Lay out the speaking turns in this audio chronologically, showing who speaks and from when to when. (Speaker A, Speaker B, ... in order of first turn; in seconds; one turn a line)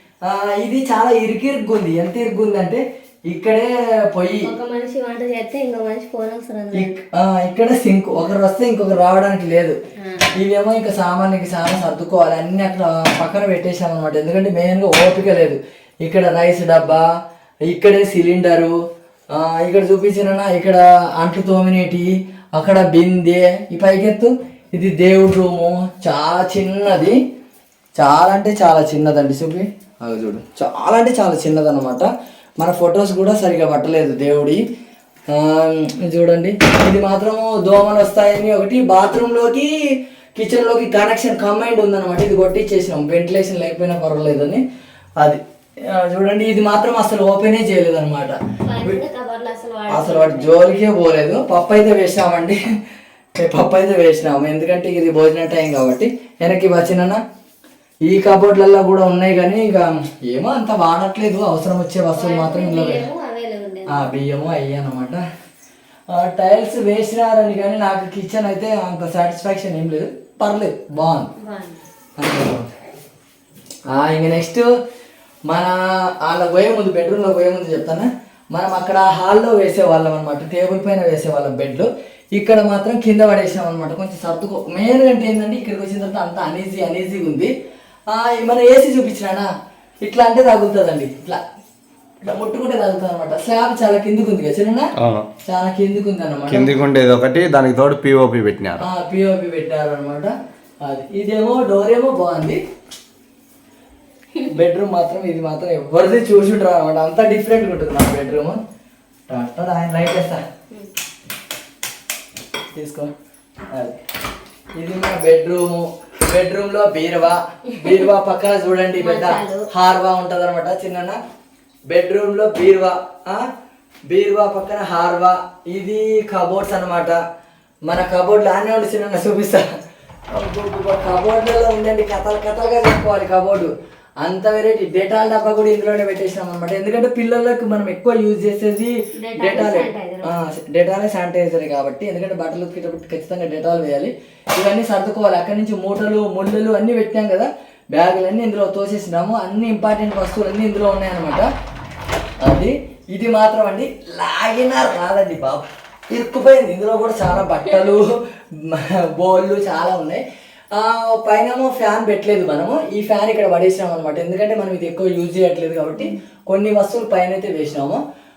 Speaker A: 0.2-4.5
Speaker B: 4.4-6.9
Speaker A: 6.7-9.8
Speaker B: 10.0-10.3
Speaker A: 10.4-17.1
Speaker A: 17.7-18.8
Speaker A: 19.3-27.2
Speaker A: 28.0-32.1
Speaker A: 32.6-34.6
Speaker A: 35.3-39.7
Speaker A: 40.4-44.6
Speaker A: 45.2-49.0
Speaker B: 48.6-50.6
Speaker A: 49.9-52.6
Speaker A: 53.4-57.2
Speaker A: 58.1-63.1
Speaker B: 62.1-64.1
Speaker A: 63.9-65.2
Speaker A: 66.1-71.3
Speaker B: 71.4-71.8
Speaker A: 72.2-72.7
Speaker A: 73.9-74.7
Speaker A: 75.5-87.5
Speaker A: 88.1-89.5
Speaker A: 90.0-91.4
Speaker A: 92.2-94.9
Speaker C: 95.0-95.3
Speaker A: 95.5-96.8
Speaker C: 96.5-98.8
Speaker A: 98.8-100.3
Speaker A: 100.8-102.6
Speaker A: 104.5-108.6
Speaker A: 109.3-110.4
Speaker A: 112.8-113.1
Speaker A: 113.7-114.0
Speaker A: 114.8-121.2
Speaker B: 119.0-119.7
Speaker A: 121.9-123.4
Speaker A: 124.1-127.2
Speaker A: 127.9-129.6
Speaker A: 130.3-133.7
Speaker A: 134.2-151.5
Speaker B: 139.2-140.4
Speaker A: 152.4-158.1
Speaker A: 158.7-160.2
Speaker A: 160.7-168.0